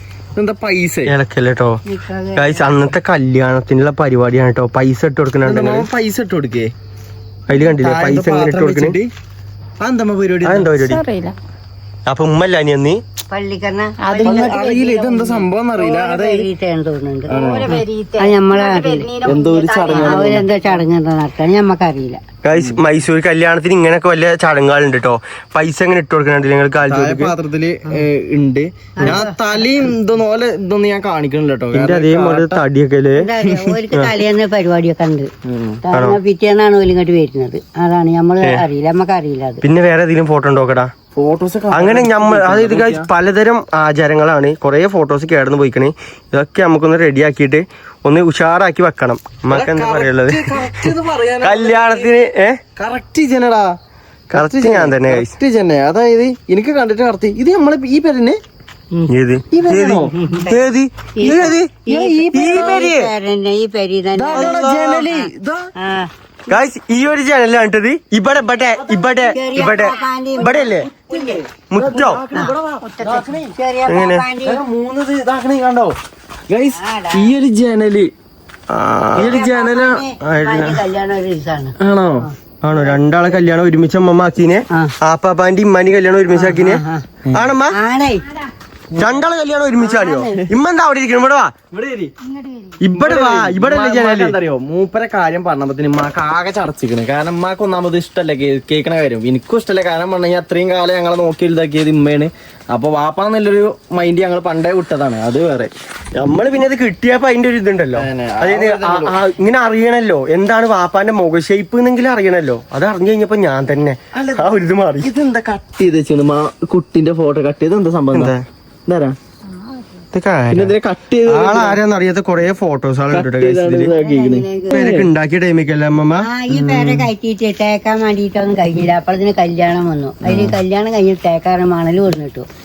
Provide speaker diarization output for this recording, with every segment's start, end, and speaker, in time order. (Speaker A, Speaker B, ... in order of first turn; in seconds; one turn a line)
Speaker A: 0.3-1.1
Speaker B: 1.1-1.8
Speaker C: 1.9-2.9
Speaker B: 2.4-5.9
Speaker A: 5.4-6.7
Speaker B: 7.5-9.0
Speaker A: 7.6-9.1
Speaker A: 9.8-10.8
Speaker B: 10.4-11.0
Speaker D: 10.8-11.3
Speaker B: 12.1-13.0
Speaker C: 13.3-19.1
Speaker D: 14.0-14.6
Speaker A: 14.2-16.5
Speaker A: 17.3-17.8
Speaker D: 17.3-20.5
Speaker A: 19.2-20.5
Speaker C: 19.9-22.2
Speaker B: 22.4-27.3
Speaker A: 26.9-32.6
Speaker C: 29.0-29.3
Speaker B: 31.7-33.3
Speaker C: 33.1-35.3
Speaker A: 33.4-33.8
Speaker A: 35.4-35.8
Speaker C: 35.8-39.6
Speaker B: 35.9-36.2
Speaker B: 39.6-40.9
Speaker A: 41.1-43.1
Speaker B: 41.7-50.6
Speaker A: 49.5-52.1
Speaker B: 51.4-52.6
Speaker A: 52.8-53.7
Speaker A: 54.3-58.4
Speaker B: 54.3-55.3
Speaker B: 59.1-61.7
Speaker A: 59.5-60.1
Speaker C: 60.1-60.6
Speaker C: 61.1-64.6
Speaker A: 61.2-62.8
Speaker B: 62.3-63.1
Speaker A: 64.2-65.7
Speaker B: 64.3-65.1
Speaker C: 65.8-66.1
Speaker B: 66.5-70.9
Speaker C: 69.3-71.1
Speaker D: 69.4-70.5
Speaker A: 70.9-73.5
Speaker B: 71.7-72.2
Speaker C: 72.3-74.6
Speaker D: 73.0-73.3
Speaker B: 73.9-74.2
Speaker A: 74.4-76.0
Speaker A: 76.5-78.1
Speaker C: 76.7-77.3
Speaker B: 78.7-79.4
Speaker A: 79.1-80.0
Speaker C: 79.2-82.3
Speaker B: 80.2-80.8
Speaker A: 81.8-82.2
Speaker B: 82.6-86.8
Speaker C: 86.3-87.0
Speaker B: 87.3-87.8
Speaker C: 87.7-88.3
Speaker A: 88.9-89.2
Speaker B: 89.0-91.5
Speaker C: 89.8-90.4
Speaker A: 91.7-92.1
Speaker D: 92.2-92.8
Speaker B: 92.8-94.3
Speaker A: 92.9-105.7
Speaker B: 106.1-115.1
Speaker A: 107.9-109.1
Speaker A: 114.1-118.3
Speaker B: 118.1-118.5
Speaker A: 118.9-119.2
Speaker B: 120.1-120.7
Speaker A: 120.5-121.8
Speaker B: 121.2-123.9
Speaker A: 123.1-125.1
Speaker C: 124.0-124.8
Speaker B: 124.7-127.1
Speaker C: 126.2-132.4
Speaker A: 130.2-130.6